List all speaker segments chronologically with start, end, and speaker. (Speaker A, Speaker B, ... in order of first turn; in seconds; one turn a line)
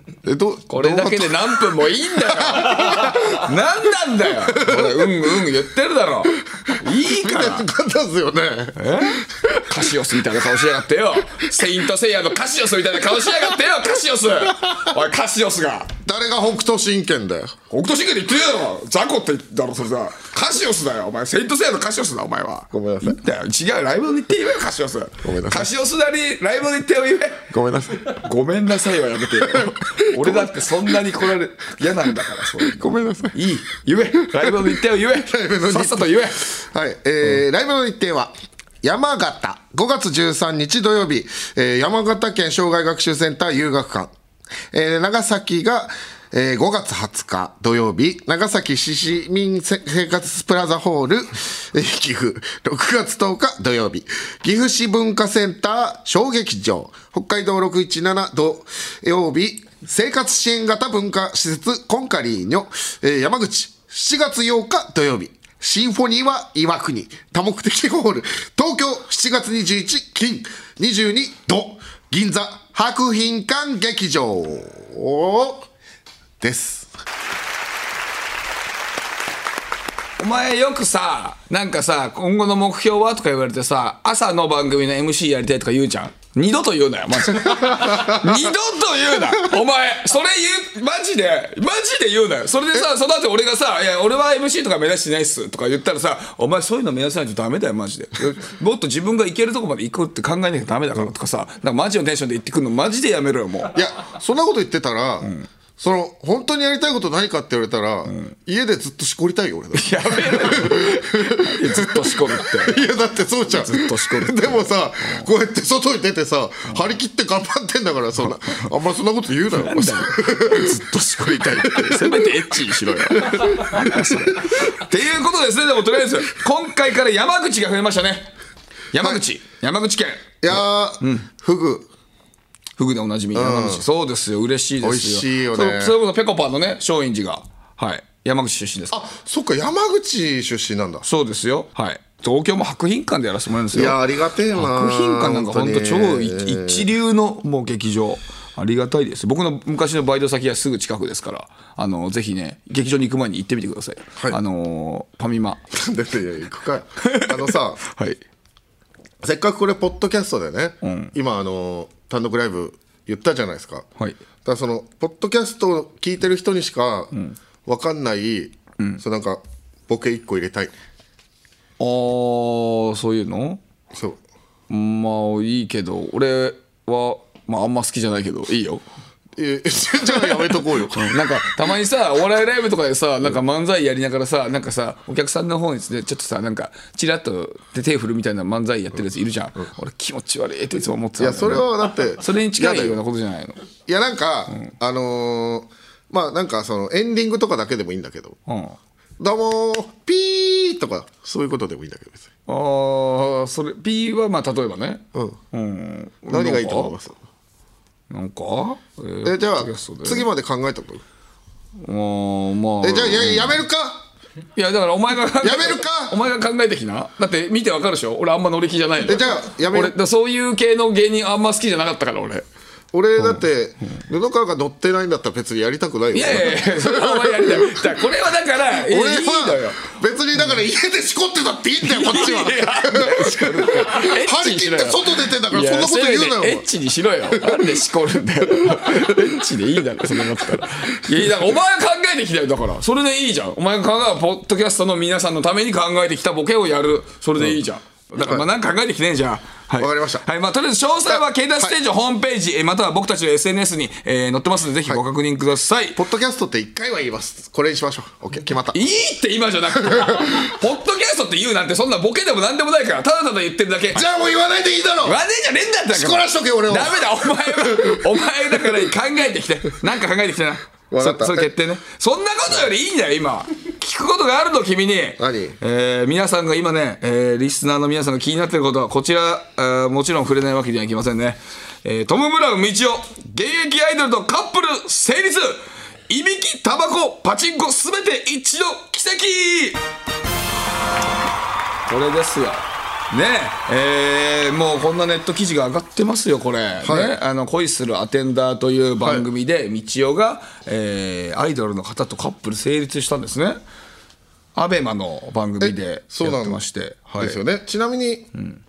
Speaker A: 0.2-3.4
Speaker B: 0.7-7.7
Speaker A: 4.5-5.1
Speaker A: 7.0-8.8
Speaker B: 8.8-15.9
Speaker A: 16.0-17.6
Speaker B: 17.7-27.5
Speaker A: 22.7-23.2
Speaker A: 25.2-25.7
Speaker A: 27.5-28.2
Speaker B: 28.0-36.5
Speaker A: 29.5-30.6
Speaker A: 32.6-33.4
Speaker A: 34.3-44.1
Speaker A: 44.7-75.7
Speaker A: 76.4-76.9
Speaker B: 80.2-103.8
Speaker A: 87.7-88.2
Speaker A: 103.7-120.8
Speaker B: 109.7-112.8
Speaker B: 113.5-115.3
Speaker B: 119.5-128.3
Speaker A: 121.5-122.2
Speaker A: 123.1-124.6
Speaker B: 128.9-131.2
Speaker A: 130.4-131.9
Speaker B: 132.8-139.0
Speaker A: 133.3-133.8
Speaker A: 134.8-135.9
Speaker A: 138.9-141.1
Speaker B: 141.0-144.0
Speaker A: 143.7-146.9
Speaker B: 144.5-155.7
Speaker A: 155.7-157.8
Speaker B: 157.0-158.2
Speaker A: 159.2-163.8
Speaker B: 160.8-161.1
Speaker A: 164.4-167.1
Speaker A: 167.6-170.7
Speaker B: 171.8-173.6
Speaker A: 173.9-174.2
Speaker B: 174.7-178.8
Speaker A: 179.4-181.2
Speaker B: 180.1-193.6
Speaker A: 191.2-193.0
Speaker A: 193.9-198.4
Speaker B: 198.5-198.8
Speaker A: 199.2-202.3
Speaker B: 202.5-206.9
Speaker A: 205.1-205.4
Speaker A: 206.3-207.2
Speaker B: 208.1-210.3
Speaker A: 209.2-211.0
Speaker B: 211.8-213.6
Speaker A: 212.8-214.0
Speaker B: 214.5-222.4
Speaker A: 215.4-216.2
Speaker A: 219.0-219.9
Speaker A: 222.9-227.9
Speaker B: 226.1-229.8
Speaker A: 228.7-236.7
Speaker B: 231.8-256.0
Speaker A: 237.4-237.7
Speaker A: 238.6-239.2
Speaker A: 248.2-248.4
Speaker A: 249.8-250.3
Speaker A: 251.1-251.8
Speaker A: 255.9-258.8
Speaker B: 258.7-264.1
Speaker A: 259.9-260.3
Speaker A: 263.9-265.2
Speaker B: 265.0-289.8
Speaker A: 265.9-268.1
Speaker A: 270.9-271.5
Speaker A: 275.2-275.6
Speaker B: 291.9-303.6
Speaker A: 296.8-297.2
Speaker A: 299.0-299.2
Speaker B: 304.5-307.4
Speaker A: 305.6-306.6
Speaker A: 307.2-308.3